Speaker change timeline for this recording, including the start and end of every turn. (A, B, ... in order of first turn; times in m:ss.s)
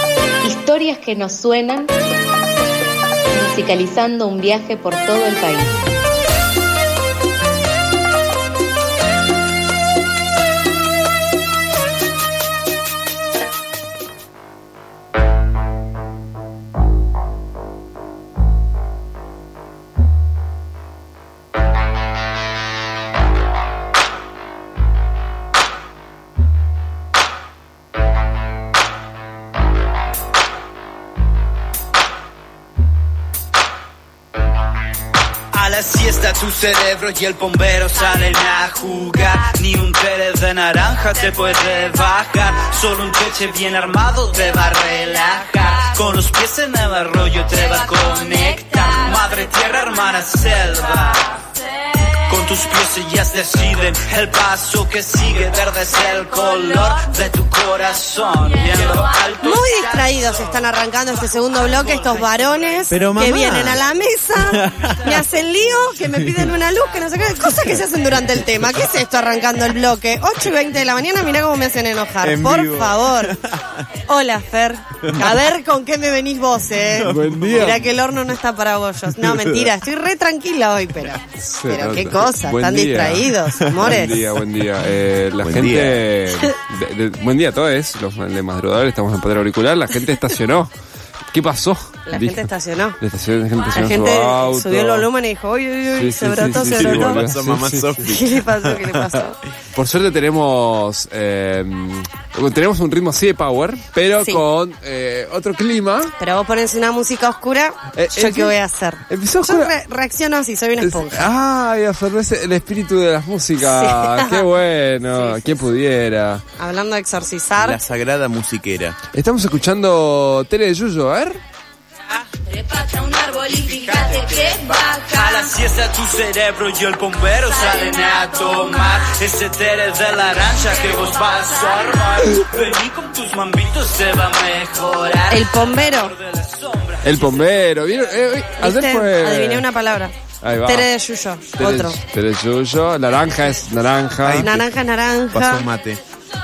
0:00.4-0:01.9 A
0:03.3-0:05.7 A
0:35.5-0:51.2 B
0:52.3-1:00.0 B
0:59.4-1:13.4 C
1:02.9-1:03.8 D
1:04.3-1:05.2 D
1:06.2-1:06.5 D
1:12.2-1:13.6 D
1:14.1-1:24.3 C
1:15.0-1:15.3 D
1:16.8-1:18.0 D
1:17.0-1:17.8 E
1:19.1-1:19.7 D
1:21.3-1:30.7 E
1:23.5-1:23.9 D
1:25.4-1:26.0 D
1:31.3-1:32.5 E
1:32.0-1:33.0 C
1:33.0-1:35.1 E
1:33.7-1:37.2 C
1:35.9-1:38.0 E
1:36.4-1:39.2 D
1:38.0-1:39.4 C
1:39.7-1:46.1 E
1:46.2-1:51.3 C
1:47.9-1:48.6 E
1:49.1-1:49.7 E
1:50.8-1:56.4 E
1:53.6-1:54.5 C
1:55.1-1:55.6 C
1:56.6-1:57.8 C
1:57.6-1:59.0 D
1:59.1-2:01.4 E
2:02.8-2:04.8 F
2:05.1-2:16.4 B
2:15.3-2:16.2 C
2:17.0-2:19.7 E
2:18.6-2:22.0 C
2:20.4-2:20.9 E
2:21.6-2:24.5 E
2:24.2-2:24.7 D
2:24.4-2:25.7 C
2:25.3-2:26.0 D